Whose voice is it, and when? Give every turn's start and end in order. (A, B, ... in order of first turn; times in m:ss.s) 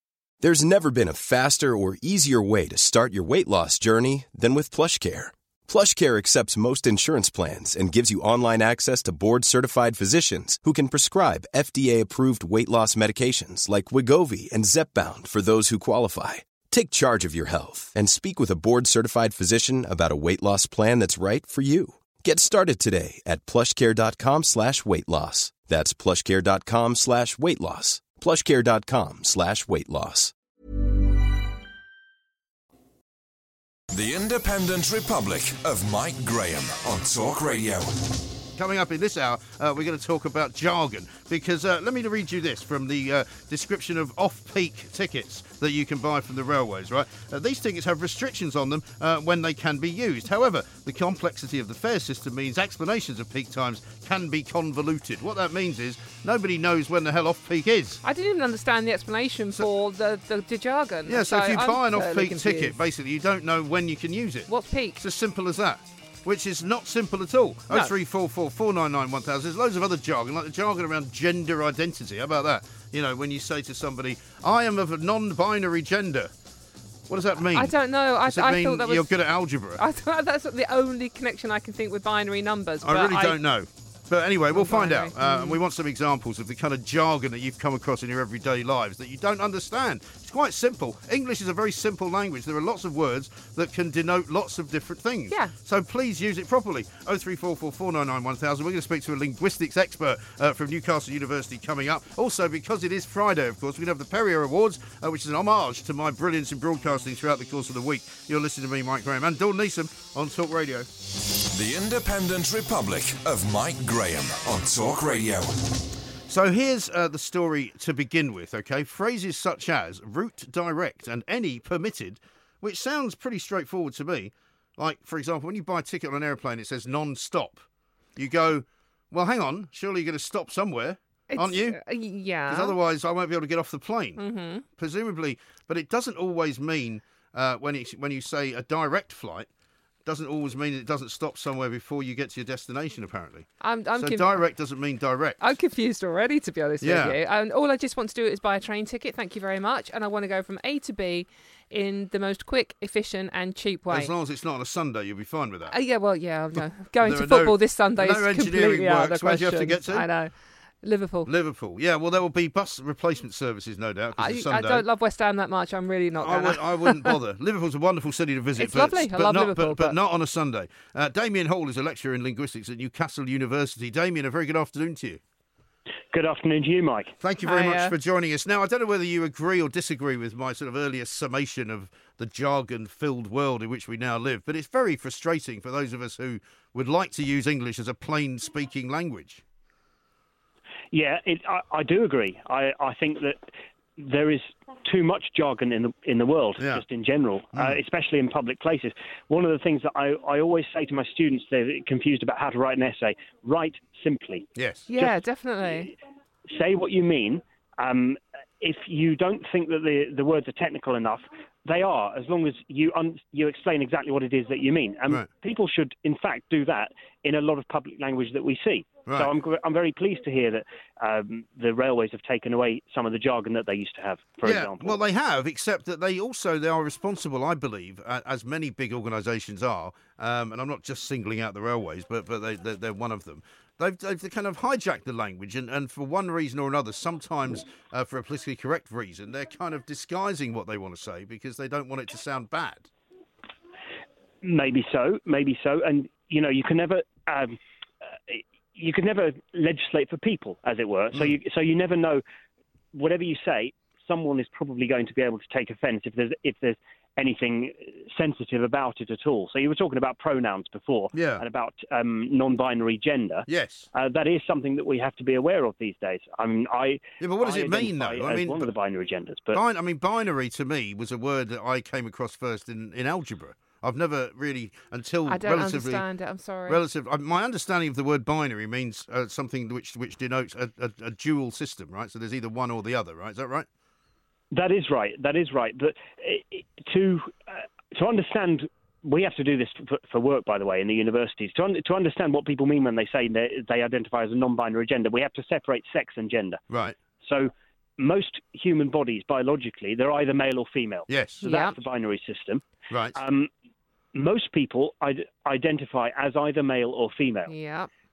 0:00.4-0:30.3 A
0:33.9-0:38.1 B
0:38.6-0:58.0 C
0:58.0-1:02.8 D
1:01.1-1:16.3 C
1:04.5-1:05.0 D
1:17.1-1:19.8 C
1:17.5-1:19.1 D
1:19.8-1:23.4 D
1:22.8-1:50.9 C
1:24.5-1:25.6 D
1:35.3-1:35.5 D
1:51.5-1:55.5 B
1:56.3-2:07.6 C
2:08.2-2:11.8 C
2:11.3-2:12.8 D
2:12.5-2:14.2 C
2:14.2-2:14.6 D
2:14.8-2:19.5 C
2:20.0-2:25.5 C
2:23.6-2:24.4 D
2:25.4-2:34.1 D
2:26.8-2:27.2 C
2:33.9-2:35.7 C
2:35.7-2:41.3 D
2:36.5-2:40.0 C
2:41.2-2:44.8 C
2:44.2-2:47.2 D
2:46.2-2:55.2 C
2:48.6-2:50.0 D
2:56.1-2:57.2 E
2:57.2-3:09.4 C
2:57.4-2:57.9 D
3:10.9-3:25.1 E
3:24.6-3:24.9 C
3:24.9-3:25.9 D
3:26.5-3:45.0 E
3:39.1-3:39.3 C
3:44.4-4:02.9 C
4:04.4-4:07.6 E
4:08.3-4:12.2 E
4:12.9-4:29.6 E
4:21.1-4:21.4 C
4:23.5-4:23.9 C
4:27.2-4:28.7 C
4:29.5-4:36.0 C
4:35.3-4:36.8 D
4:36.7-4:43.7 C
4:44.5-4:56.6 E
4:56.7-4:57.0 C
4:57.2-5:02.6 E
5:01.1-5:01.4 C
5:01.4-5:01.8 D
5:02.9-5:03.1 C
5:03.1-5:03.5 E
5:04.1-5:07.5 E
5:07.5-5:07.9 D